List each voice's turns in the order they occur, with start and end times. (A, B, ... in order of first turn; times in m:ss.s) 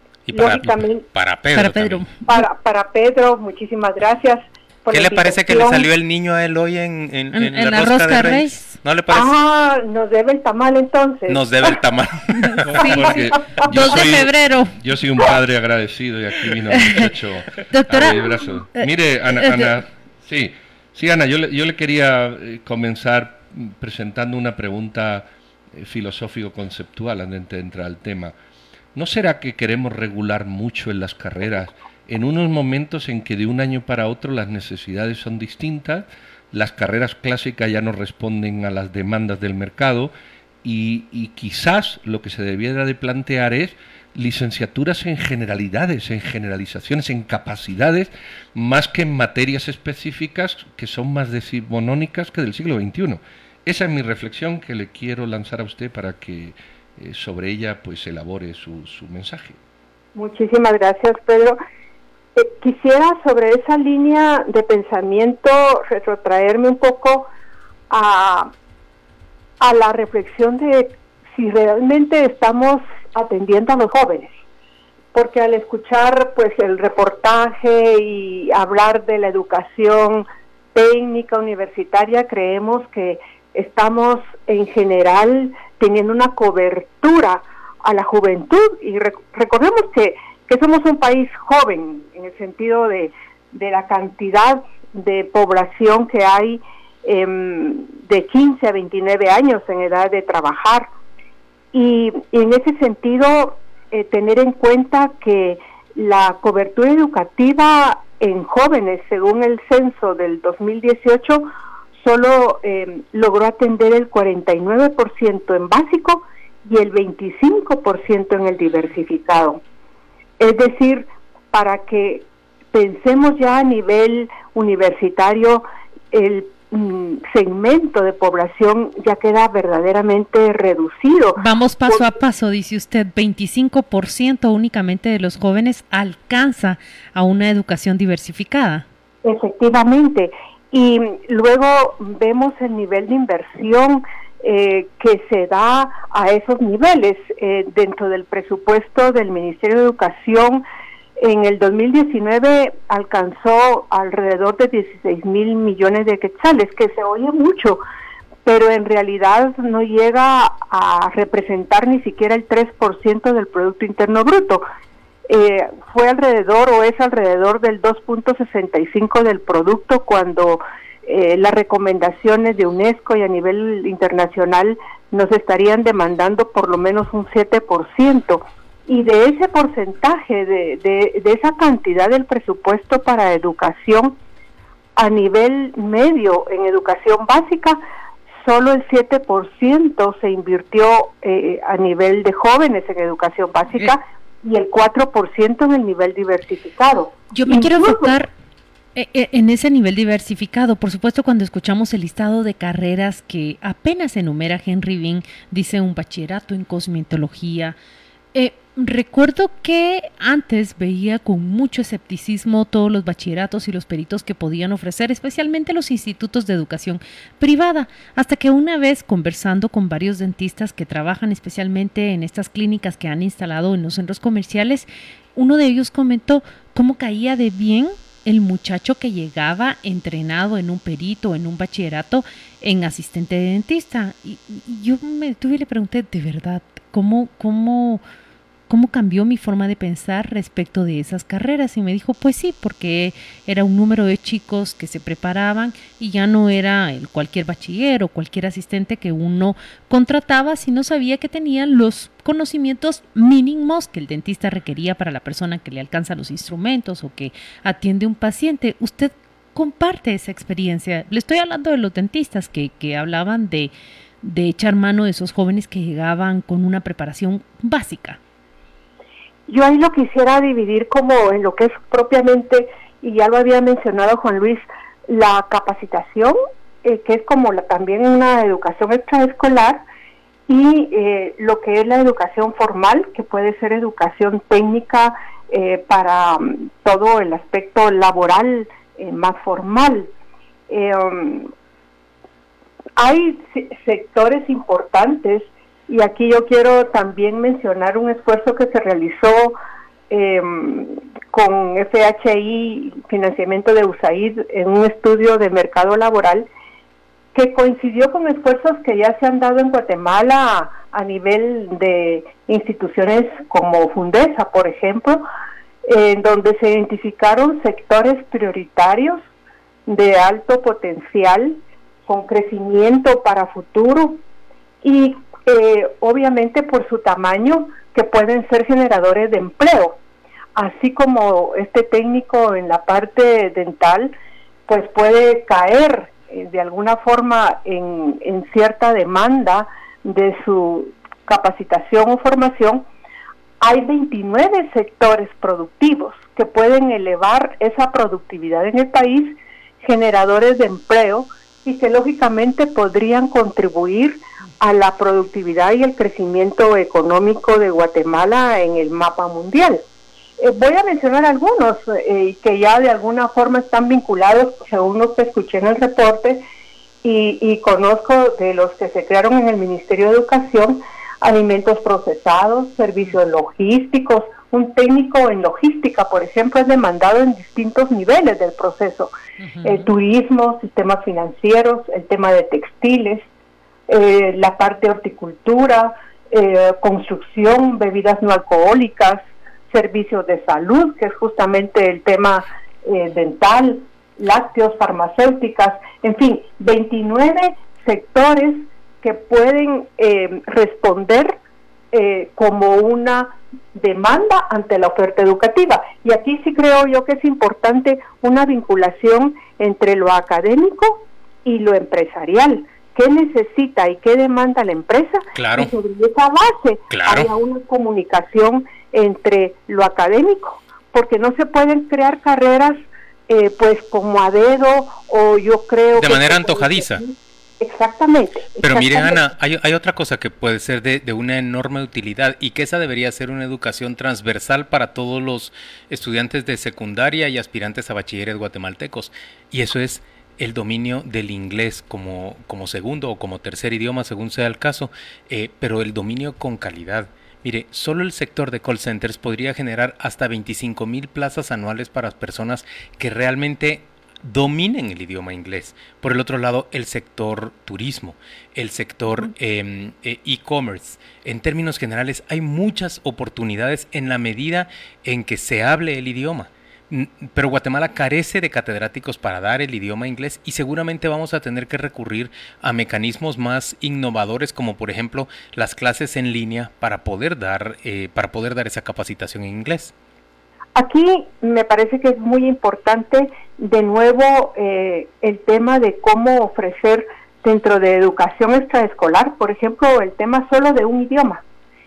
0:00.3-0:02.1 A
0:00.3-0:01.0 B
0:01.5-0:02.3 C
0:02.3-0:05.9 B
0:04.9-0:09.4 A
0:07.3-0:08.8 C
0:09.1-0:11.8 B
0:11.3-0:13.0 A
0:12.4-0:14.8 C
0:12.7-0:28.4 D
0:16.7-0:17.1 C
0:17.7-0:19.8 C
0:29.0-0:40.1 D
0:40.6-0:59.6 D
1:00.2-1:01.6 B
1:02.4-1:07.3 B
1:07.9-1:08.5 B
1:09.6-1:14.3 B
1:15.1-1:40.9 B
1:41.7-1:59.6 B
2:00.4-2:12.0 B
2:11.4-2:18.9 C
2:19.2-2:30.6 B
2:31.2-2:37.8 B
2:38.5-2:44.6 B
2:45.3-3:04.2 B
3:05.0-3:07.8 B
3:08.4-3:18.1 B
3:17.3-3:18.3 C
3:19.0-3:27.8 C
3:28.4-3:58.0 C
3:58.7-4:28.2 C
4:29.5-4:39.8 B
4:40.5-4:50.1 B
4:50.7-4:51.5 B
4:53.0-4:59.6 B
5:00.1-5:06.5 B
5:07.3-5:15.2 B
5:15.9-5:19.2 B
5:19.9-5:24.2 B
5:24.8-5:30.0 B
5:30.6-5:34.1 B
5:34.7-5:42.8 B
5:43.6-5:59.8 B
6:00.4-6:06.4 B
6:07.0-6:19.1 B
6:19.5-6:19.7 C
6:19.6-6:23.2 B
6:23.9-6:41.4 B
6:41.9-7:09.3 B
6:55.4-6:55.7 A
6:56.9-6:57.3 A
7:05.9-7:07.0 A
7:08.6-7:59.9 A
8:00.8-8:11.4 B